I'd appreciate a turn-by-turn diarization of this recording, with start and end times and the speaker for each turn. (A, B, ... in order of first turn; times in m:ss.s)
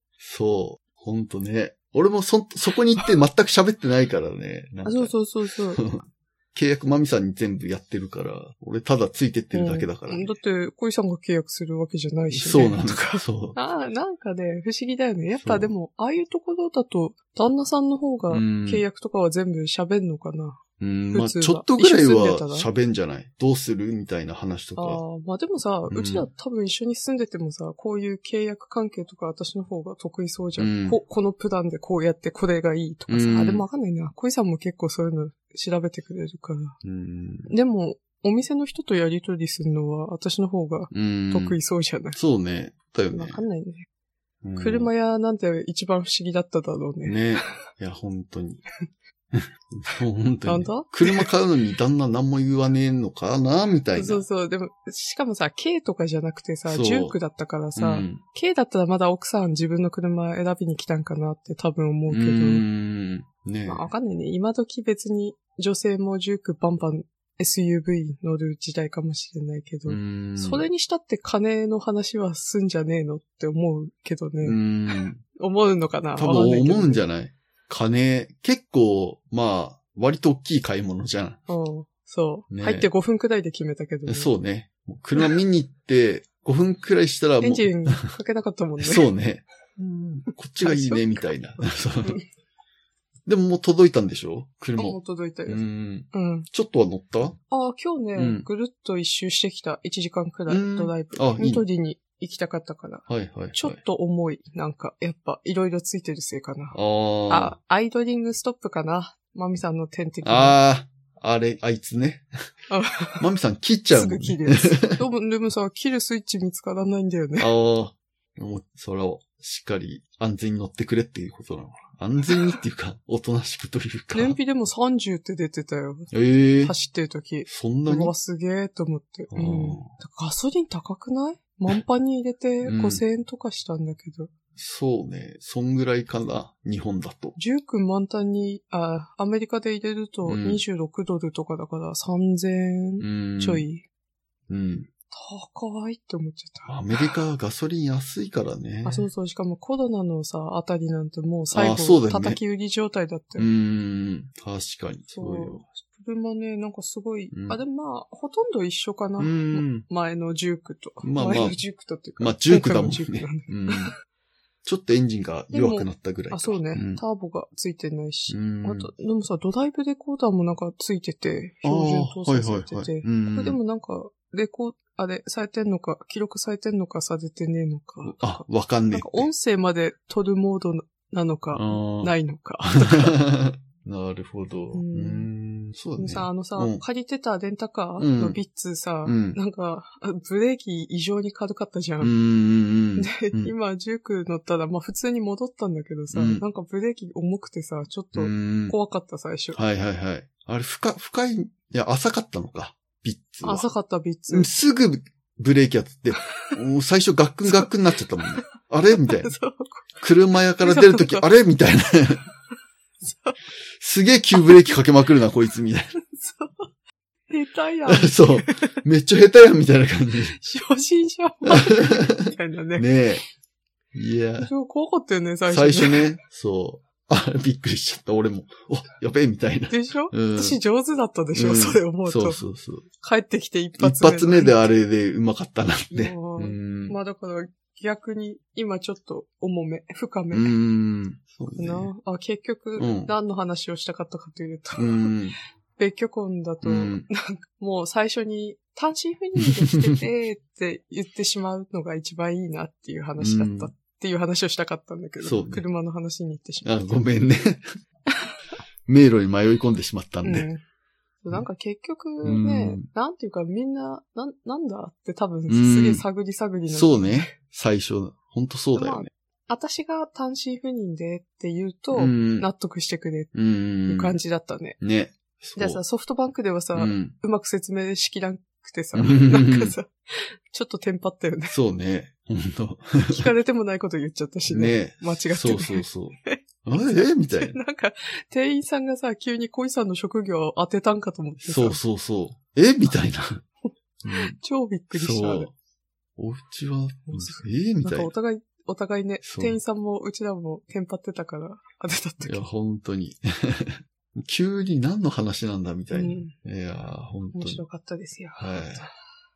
0:00.2-0:05.2 A
0:04.8-0:05.8 B
0:05.7-0:10.4 A
0:09.5-0:20.6 B
0:12.3-0:13.6 A
0:15.4-0:15.7 A
0:18.3-0:18.8 A
0:20.8-0:25.0 A
0:21.1-0:22.7 B
0:24.8-0:36.8 B
0:25.9-0:26.3 A
0:30.6-0:31.0 A
0:33.1-0:33.6 A
0:36.8-0:37.5 A
0:37.5-0:42.2 B
0:40.9-0:41.6 A
0:42.1-0:43.4 A
0:43.1-0:43.9 B
0:44.4-0:44.9 A
0:44.6-0:47.2 B
0:47.0-0:48.6 A
0:49.3-0:54.2 A
0:50.5-0:51.3 B
0:54.0-1:02.6 B
0:56.7-0:57.2 A
0:57.8-0:58.2 A
1:02.1-1:03.9 A
1:03.7-1:14.6 B
1:09.9-1:10.6 A
1:14.4-1:15.2 A
1:15.2-1:17.0 B
1:16.2-1:21.4 A
1:21.5-1:24.3 B
1:22.5-1:22.9 A
1:24.1-1:28.1 A
1:27.4-1:29.1 B
1:28.8-1:32.2 A
1:30.6-1:32.2 B
1:33.3-1:37.4 A
1:34.8-1:35.6 B
1:36.1-1:36.5 B
1:37.5-1:46.8 B
1:38.2-1:38.5 A
1:40.5-1:41.6 A
1:43.1-1:43.8 A
1:46.7-1:47.5 A
1:47.3-1:50.6 B
1:50.2-1:52.2 A
1:52.7-1:53.3 B
1:53.2-1:55.0 A
1:53.9-1:57.5 B
1:57.4-2:04.4 A
2:02.3-2:02.6 B
2:04.1-2:14.3 B
2:06.1-2:06.8 A
2:07.5-2:08.1 A
2:09.3-2:09.9 A
2:12.6-2:13.0 A
2:14.6-2:17.4 A
2:17.4-2:23.8 B
2:20.2-2:20.6 A
2:23.0-2:23.7 A
2:24.5-2:24.9 A
2:25.1-2:27.1 B
2:26.7-2:29.1 A
2:28.8-2:33.5 B
2:31.5-2:32.4 A
2:33.4-2:35.6 A
2:35.1-2:43.9 B
2:37.3-2:37.6 A
2:39.2-2:39.8 A
2:41.0-2:41.6 A
2:42.2-2:43.9 A
2:44.6-2:47.0 A
2:45.5-3:03.2 B
2:48.3-2:48.9 A
2:51.6-2:53.6 A
2:58.0-2:59.3 A
3:01.5-3:02.1 A
3:02.6-3:06.8 A
3:04.7-3:05.3 B
3:06.0-3:12.1 B
3:08.0-3:08.4 A
3:09.0-3:09.4 A
3:12.0-3:13.5 A
3:13.0-3:19.6 B
3:16.1-3:16.4 A
3:18.2-3:18.8 A
3:19.5-3:23.7 A
3:23.4-3:24.5 B
3:24.3-3:29.3 A
3:29.2-3:29.9 B
3:30.0-3:32.2 A
3:30.6-3:31.3 B
3:33.0-3:33.4 B
3:33.8-3:35.9 A
3:34.4-3:34.8 B
3:36.1-3:36.7 B
3:37.3-3:38.6 B
3:37.9-3:40.4 A
3:40.3-3:42.9 B
3:41.4-3:43.2 A
3:43.9-3:44.5 A
3:44.4-3:46.1 B
3:45.5-3:50.6 A
3:49.7-3:52.4 B
3:51.3-3:52.9 A
3:53.0-3:54.8 B
3:53.8-3:57.0 A
3:55.9-4:00.6 B
4:00.3-4:01.9 A
4:01.6-4:05.1 B
4:02.8-4:03.1 A
4:04.8-4:05.4 A
4:05.8-4:17.0 B
4:06.6-4:07.1 A
4:09.4-4:09.9 A
4:13.2-4:13.7 A
4:15.2-4:15.6 A
4:16.6-4:17.7 A
4:18.9-4:20.5 A
4:20.2-4:20.6 B
4:21.2-4:27.3 B
4:22.2-4:22.9 A
4:25.5-4:26.0 A
4:26.7-4:29.1 A
4:28.8-4:33.4 B
4:31.9-4:32.5 A
4:33.3-4:34.2 A
4:33.9-4:34.8 B
4:34.8-4:35.8 A
4:35.6-4:41.6 B
4:36.8-4:37.1 A
4:39.0-4:39.8 A
4:41.5-4:43.3 A
4:43.1-4:51.8 B
4:44.5-4:47.6 A
4:51.4-4:53.4 A
4:54.0-4:54.4 A
4:54.1-4:55.5 B
4:54.9-4:55.5 A
4:56.2-4:58.1 A
4:57.1-5:02.4 B
4:59.2-4:59.6 A
5:02.2-5:07.6 A
5:05.9-5:06.3 B
5:07.3-5:08.9 B
5:08.4-5:08.9 A